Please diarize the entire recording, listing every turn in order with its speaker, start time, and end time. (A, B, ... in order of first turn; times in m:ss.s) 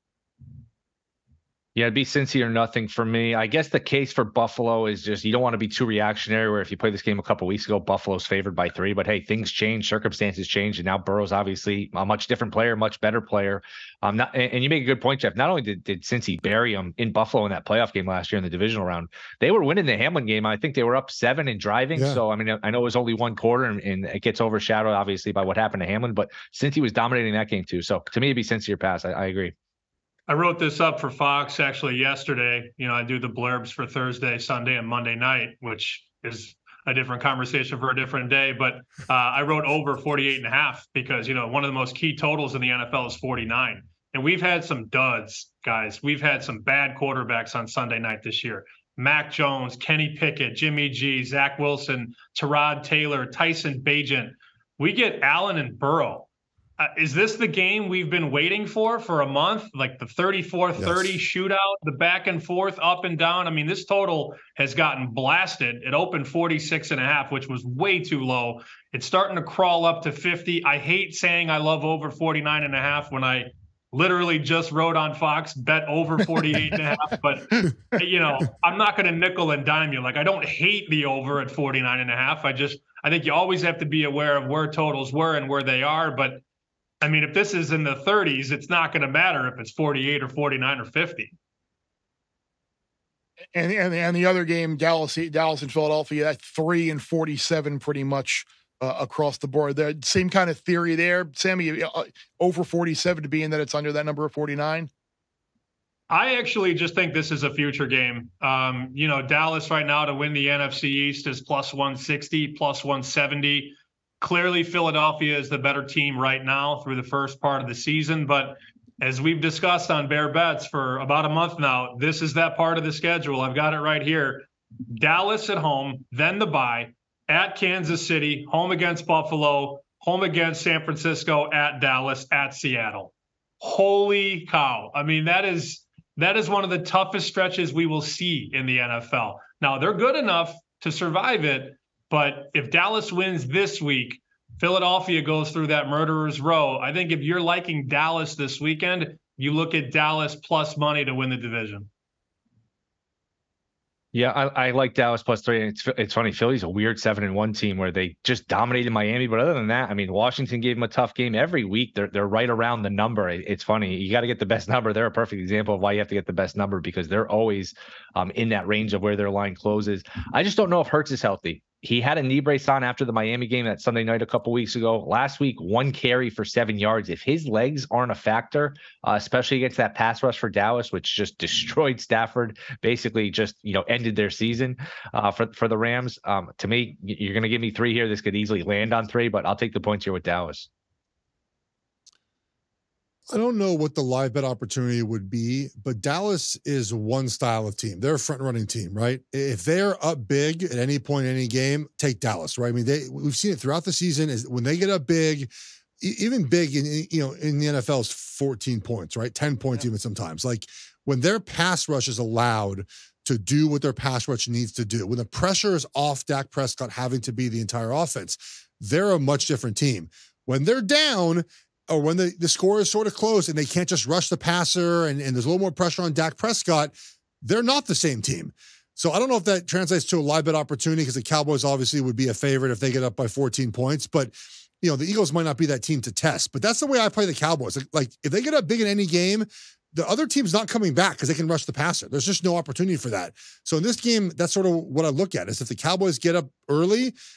0:01.8-0:29.5 A
0:22.0-0:22.2 B
0:30.3-1:26.4 C
1:00.8-1:01.1 B
1:17.6-1:18.0 D
1:27.0-1:31.3 C
1:33.5-1:44.9 D
1:46.1-2:31.9 C
2:34.1-3:10.7 A
3:13.3-4:07.2 B